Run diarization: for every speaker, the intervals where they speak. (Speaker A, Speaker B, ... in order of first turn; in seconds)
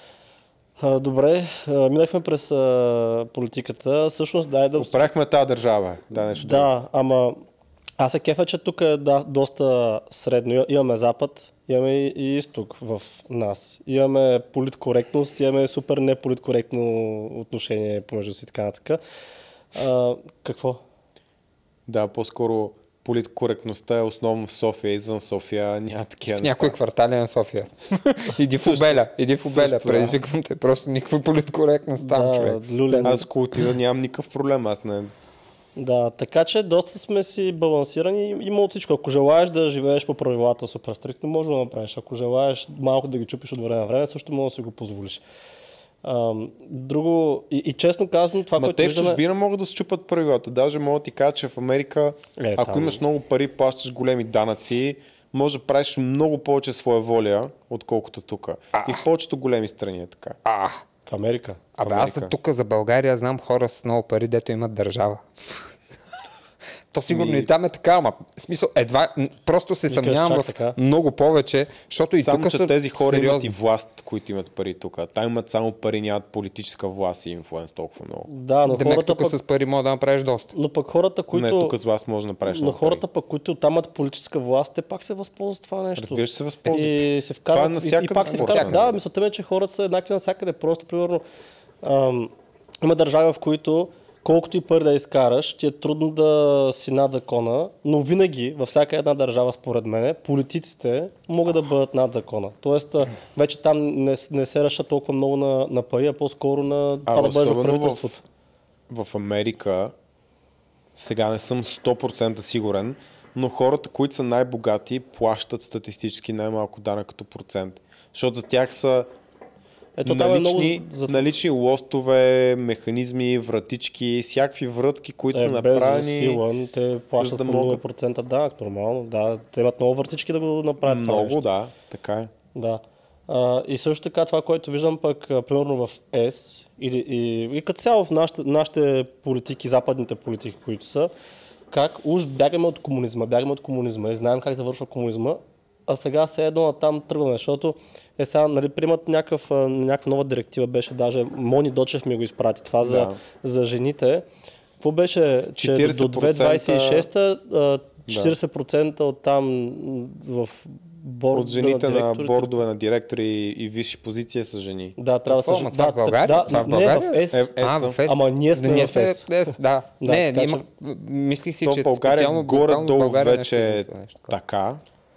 Speaker A: 0.8-5.1, 6.3-7.4, 8.0-19.0, 19.7-20.8, 32.0-33.2, 35.8-45.2, 46.0-49.2, 52.4-53.0, 61.0-61.6, 69.9-70.8, 78.3-79.4, 80.5-81.8, 82.5-91.2, 91.8-108.2, 120.0-121.3, 125.3-131.4, 132.5-141.1, 141.7-154.3, 154.8-162.5, 165.0-167.5, 168.1-170.6
Speaker B: 4.8-6.7, 21.9-26.8, 28.6-30.1, 33.0-35.1, 48.5-60.4, 61.8-62.3, 67.1-67.5, 72.2-78.3, 81.3-83.0, 86.0-89.0, 107.0-108.2, 108.9-109.9, 111.0-119.1, 120.0-126.4, 127.2-127.8, 130.8-132.3, 152.8-153.2, 155.6-157.1, 158.1-158.3, 161.3-164.9, 167.3-168.0, 171.6-174.8
Speaker C: 26.4-33.2, 58.7-59.0, 60.4-60.8, 61.8-65.7, 66.9-73.5, 78.7-80.5, 88.2-88.9, 165.3-174.3